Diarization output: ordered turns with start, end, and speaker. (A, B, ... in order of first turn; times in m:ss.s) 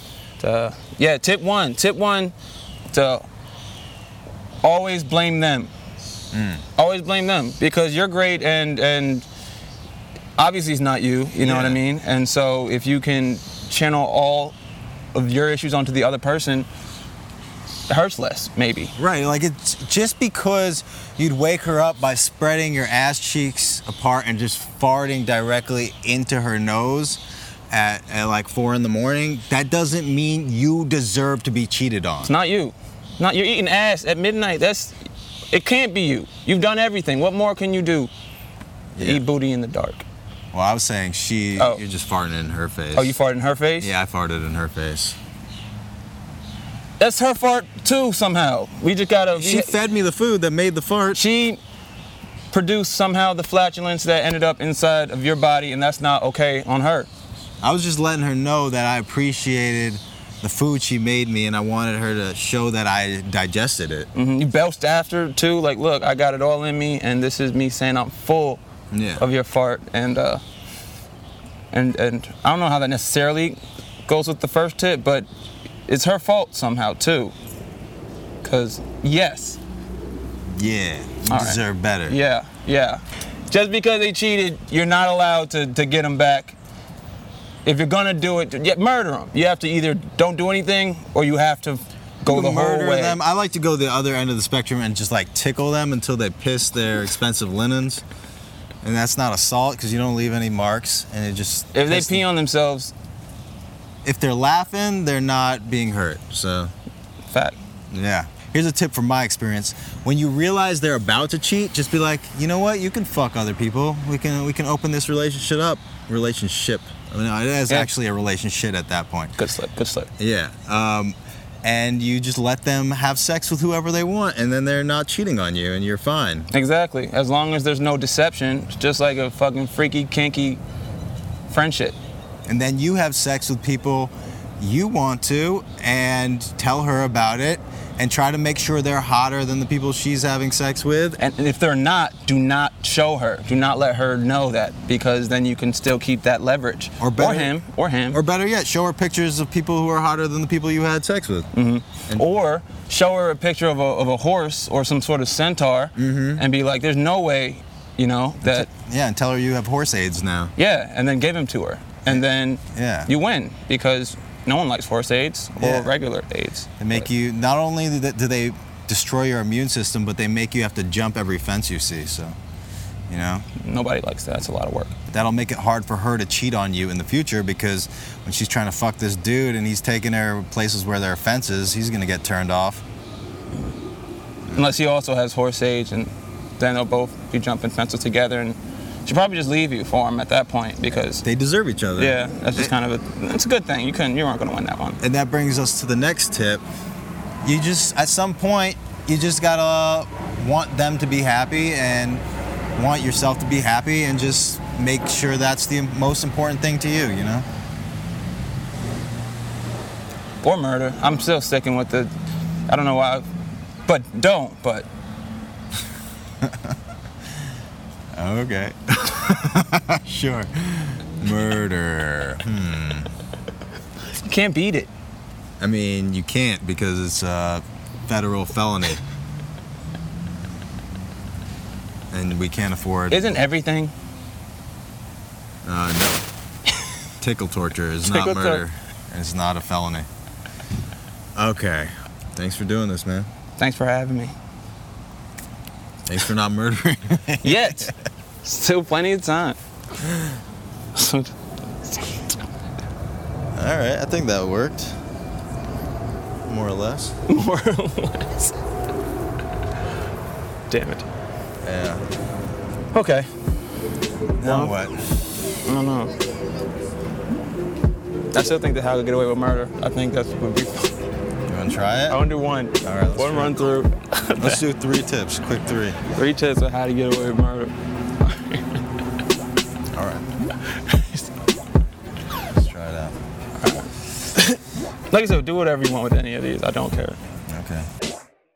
0:00.4-0:02.3 A
0:02.9-0:03.3 A
0:04.6-0:05.7 A
0:06.3-0:06.6 B
0:06.8-0:09.3 A
0:10.4-0:14.6 A
0:11.4-0:11.8 B
0:15.1-0:16.7 A
0:17.9-0:19.0 A
0:19.0-0:27.2 B
0:27.7-0:32.3 B
0:32.2-0:35.0 A
0:35.5-0:38.1 A
0:39.0-0:39.2 B
0:39.0-0:40.0 A
0:40.5-0:43.2 B
0:43.0-0:43.9 A
0:43.8-0:45.2 B
0:47.0-0:49.8 A
0:49.3-0:51.2 B
0:51.1-0:51.6 A
0:52.5-0:57.1 A
0:57.6-1:04.1 B
1:04.2-1:08.6 A
1:08.9-1:09.2 B
1:09.2-1:10.4 A
1:11.7-1:15.3 A
1:15.9-1:17.3 A
1:18.4-1:19.6 A
1:20.5-1:22.2 B
1:21.3-1:26.6 A
1:27.6-1:33.2 A
1:32.3-1:38.0 B
1:38.8-1:42.3 B
1:41.7-1:42.9 A
1:44.0-1:46.7 B
1:47.3-1:47.6 A
1:47.9-1:59.3 B
1:59.4-2:00.1 A
2:00.2-2:06.5 B
2:06.5-2:10.6 A
2:11.5-2:12.0 A
2:12.5-2:21.2 B
2:21.2-2:28.2 A
2:27.0-2:27.5 B
2:28.1-2:31.5 B
2:31.5-2:38.7 A
2:36.0-2:36.4 B
2:38.4-2:40.5 B
2:40.6-2:47.0 A
2:42.7-2:43.1 B
2:45.6-2:45.9 B
2:46.8-2:52.4 B
2:53.1-2:53.5 B
2:53.6-2:55.0 A
2:55.1-3:02.8 B
3:04.5-3:11.2 A
3:11.2-3:12.7 B
3:12.0-3:15.0 A
3:15.0-3:16.6 B
3:17.4-3:22.2 B
3:22.8-3:27.5 B
3:30.4-3:32.1 A
3:32.7-3:33.3 A
3:33.9-3:34.9 A
3:36.4-3:36.7 B
3:38.2-3:43.1 B
3:44.2-3:44.9 A
3:45.6-3:49.0 B
3:52.1-3:53.4 B
3:53.1-3:53.9 A
3:55.6-3:56.2 B
3:57.2-4:00.1 B
3:58.0-3:58.6 A
4:01.4-4:03.3 B
4:03.6-4:04.4 A
4:06.1-4:07.9 B
4:07.4-4:07.9 A
4:08.4-4:09.6 A
4:11.0-4:11.3 A
4:11.9-4:12.3 A
4:13.6-4:15.0 B
4:16.5-4:17.2 B
4:17.3-4:18.5 A
4:20.7-4:21.1 A
4:21.6-4:22.0 B
4:22.9-4:23.3 A
4:24.4-4:25.2 B
4:24.4-4:24.7 A
4:25.6-4:26.1 A
4:28.3-4:30.9 A
4:31.5-4:32.2 B
4:32.1-4:34.6 A
4:32.8-4:33.6 B
4:34.4-4:36.0 B
4:36.1-4:38.6 A
4:39.9-4:40.3 B
4:40.6-4:41.3 A
4:42.5-4:43.2 B
4:43.6-4:47.2 A
4:47.5-4:47.9 B